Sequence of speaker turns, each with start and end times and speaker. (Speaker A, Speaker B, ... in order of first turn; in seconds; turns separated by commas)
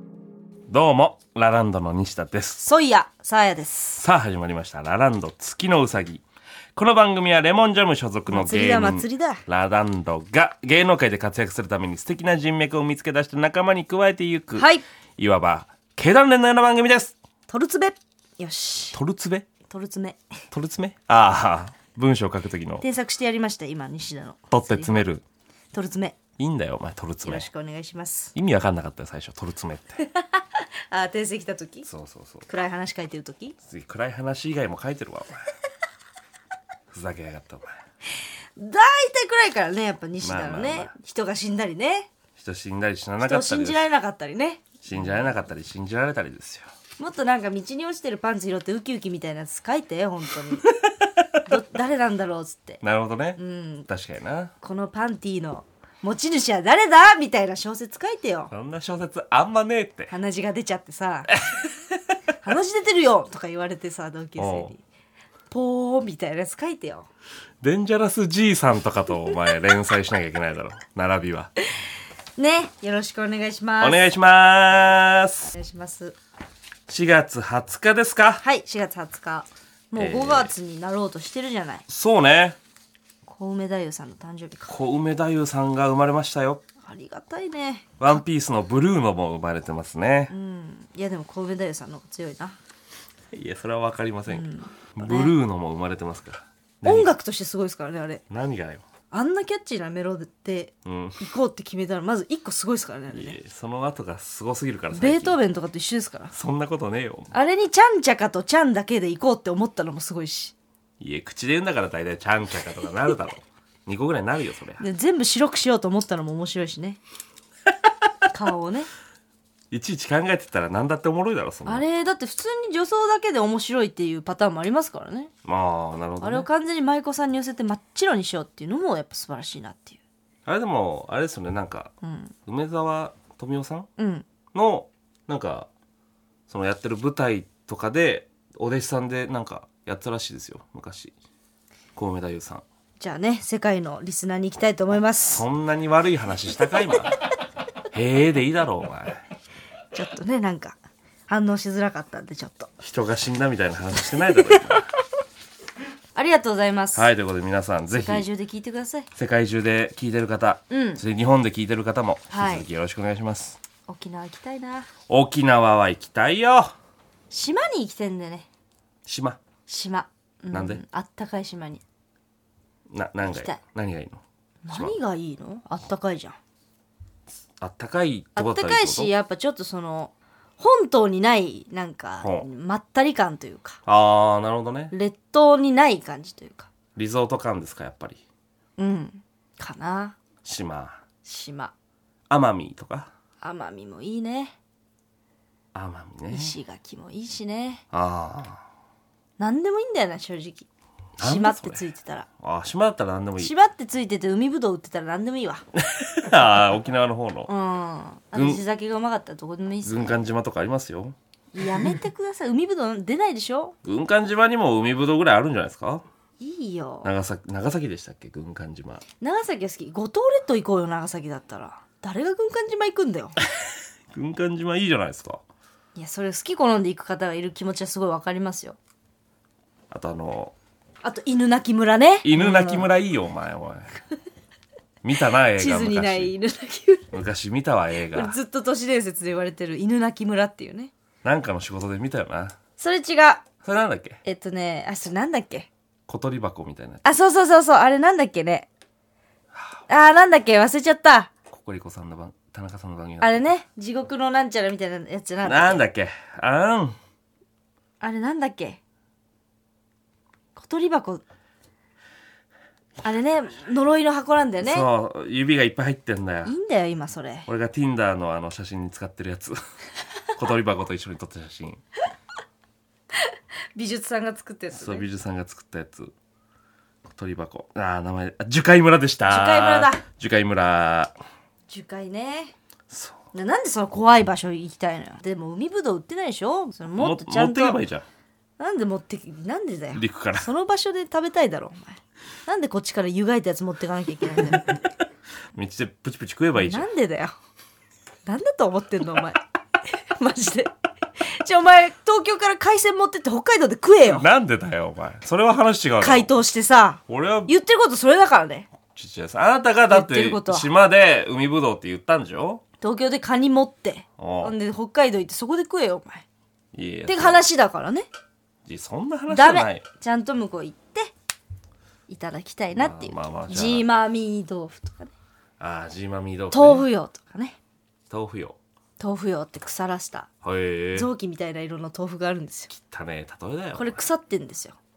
Speaker A: 0.7-2.6, Speaker B: 2.6-4.0, Speaker A: 4.0-6.2, Speaker A: 6.8-17.1, Speaker B: 8.3-9.4, Speaker B: 14.6-14.8, Speaker B: 17.5-19.0, Speaker A: 18.9-19.5, Speaker B: 19.7-20.2, Speaker A: 20.5-22.9, Speaker B: 22.8-25.0, Speaker A: 24.5-25.2, Speaker B: 25.7-26.2, Speaker A: 26.4-27.5, Speaker B: 27.2-28.3, Speaker A: 28.4-30.0, Speaker B: 30.1-31.9, Speaker A: 31.9-32.5, Speaker B: 32.5-33.6, Speaker A: 33.6-35.4, Speaker A: 36.9-37.8, Speaker B: 38.6-42.1, Speaker A: 40.2-40.9, Speaker A: 42.4-43.8, Speaker B: 43.2-45.3, Speaker A: 44.8-46.7, Speaker B: 47.0-50.7, Speaker B: 51.5-52.8, Speaker A: 52.8-54.5, Speaker B: 53.4-53.9, Speaker B: 54.6-58.5, Speaker A: 58.5-60.1, Speaker B: 60.1-61.4, Speaker B: 62.3-64.8, Speaker A: 64.4-64.7, Speaker B: 65.5-67.1, Speaker A: 67.6-71.5, Speaker B: 72.4-74.0, Speaker A: 73.8-75.5, Speaker B: 75.5-76.2, Speaker A: 76.9-78.4, Speaker B: 78.4-81.8, Speaker A: 80.0-80.5, Speaker A: 81.9-82.6, Speaker B: 83.2-84.7, Speaker A: 84.7-86.6, Speaker B: 86.8-87.9, Speaker A: 88.0-90.3, Speaker B: 90.3-92.6, Speaker A: 93.3-97.1, Speaker B: 94.3-95.3, Speaker B: 96.8-98.2, Speaker A: 98.3-98.8, Speaker B: 99.1-103.4, Speaker A: 100.8-101.2, Speaker A: 103.1-105.4, Speaker B: 104.9-106.3, Speaker A: 106.3-107.3, Speaker B: 107.3-110.5, Speaker A: 111.0-114.8, Speaker B: 114.8-117.0, Speaker B: 118.3-118.9, Speaker A: 119.7-121.8, Speaker B: 121.7-125.3, Speaker A: 125.5-126.5, Speaker B: 126.2-130.0, Speaker A: 130.5-131.9, Speaker B: 132.0-132.3, Speaker A: 132.5-133.9, Speaker B: 134.0-134.2, Speaker A: 134.5-135.7, Speaker A: 136.5-141.2, Speaker A: 142.0-142.6, Speaker B: 143.0-145.5, Speaker A: 145.3-147.2, Speaker A: 147.9-149.2, Speaker B: 149.9-152.7, Speaker A: 152.8-154.8, Speaker B: 156.2-157.1, Speaker A: 156.9-158.3, Speaker B: 157.9-159.1, Speaker A: 159.2-163.6, Speaker B: 160.7-161.0, Speaker B: 162.3-162.7, Speaker B: 163.9-164.9, Speaker A: 165.1-166.7, Speaker B: 167.3-168.5, Speaker A: 169.1-169.4, Speaker B: 169.7-171.8, Speaker A: 170.5-170.8, Speaker A: 172.9-175.0, Speaker B: 173.2-173.6, Speaker B: 174.6-176.4, Speaker A: 177.6-179.1, Speaker B: 178.4-183.8, Speaker A: 182.2-182.5, Speaker A: 183.9-184.9, Speaker B: 184.9-186.7, Speaker A: 186.9-188.2, Speaker B: 188.8-190.2, Speaker A: 190.4-191.0, Speaker B: 191.2-191.7, Speaker A: 192.3-193.1, Speaker B: 193.4-194.6, Speaker A: 195.7-196.6, Speaker B: 196.3-197.8, Speaker A: 197.9-198.6, Speaker B: 199.4-200.7, Speaker A: 201.2-201.8, Speaker B: 201.2-202.3, Speaker A: 202.4-203.5, Speaker B: 203.4-205.7, Speaker A: 205.9-207.5, Speaker B: 207.5-210.2, Speaker A: 208.3-208.6, Speaker A: 209.8-211.2, Speaker B: 211.5-213.8, Speaker A: 213.8-216.0, Speaker B: 216.4-217.1, Speaker A: 217.0-219.0, Speaker B: 219.2-223.4, Speaker A: 224.1-225.4, Speaker B: 225.9-228.8, Speaker A: 229.9-230.5, Speaker B: 231.0-232.9, Speaker A: 232.2-233.9, Speaker A: 235.0-236.3, Speaker B: 235.6-237.1, Speaker A: 237.1-238.4, Speaker B: 238.1-240.9, Speaker A: 241.2-242.6, Speaker B: 242.8-243.4, Speaker A: 243.6-244.2, Speaker B: 244.2-245.7, Speaker A: 246.1-247.0, Speaker B: 247.0-248.7, Speaker B: 249.9-251.3, Speaker A: 251.5-253.5, Speaker B: 253.2-255.8, Speaker A: 255.4-257.0, Speaker B: 258.0-258.8, Speaker B: 260.6-261.2, Speaker B: 263.0-264.9, Speaker A: 264.6-266.6, Speaker B: 266.4-267.5, Speaker A: 267.5-269.6, Speaker A: 270.4-271.8, Speaker B: 273.8-275.1, Speaker A: 274.7-276.1, Speaker A: 277.1-281.1, Speaker B: 279.3-280.0, Speaker B: 281.7-282.5, Speaker A: 282.9-283.2, Speaker B: 283.3-287.8, Speaker A: 287.0-288.1, Speaker B: 288.6-294.9, Speaker A: 289.9-290.5, Speaker A: 295.5-296.9, Speaker B: 296.6-297.4, Speaker B: 298.2-299.4, Speaker B: 300.2-300.7, Speaker B: 301.3-304.3, Speaker A: 304.0-306.3, Speaker B: 306.0-308.7, Speaker A: 307.1-307.5, Speaker A: 308.9-312.6, Speaker B: 309.9-310.7, Speaker B: 312.8-316.3, Speaker A: 314.2-314.6, Speaker A: 316.7-317.5, Speaker B: 317.1-318.1, Speaker A: 318.7-319.9, Speaker B: 319.3-321.1, Speaker B: 322.1-325.1, Speaker A: 322.7-323.9, Speaker A: 325.6-326.9, Speaker B: 326.5-327.6, Speaker A: 328.1-328.6, Speaker B: 329.0-330.3, Speaker A: 330.4-331.1, Speaker B: 330.9-332.7, Speaker A: 332.7-334.0, Speaker B: 333.8-334.8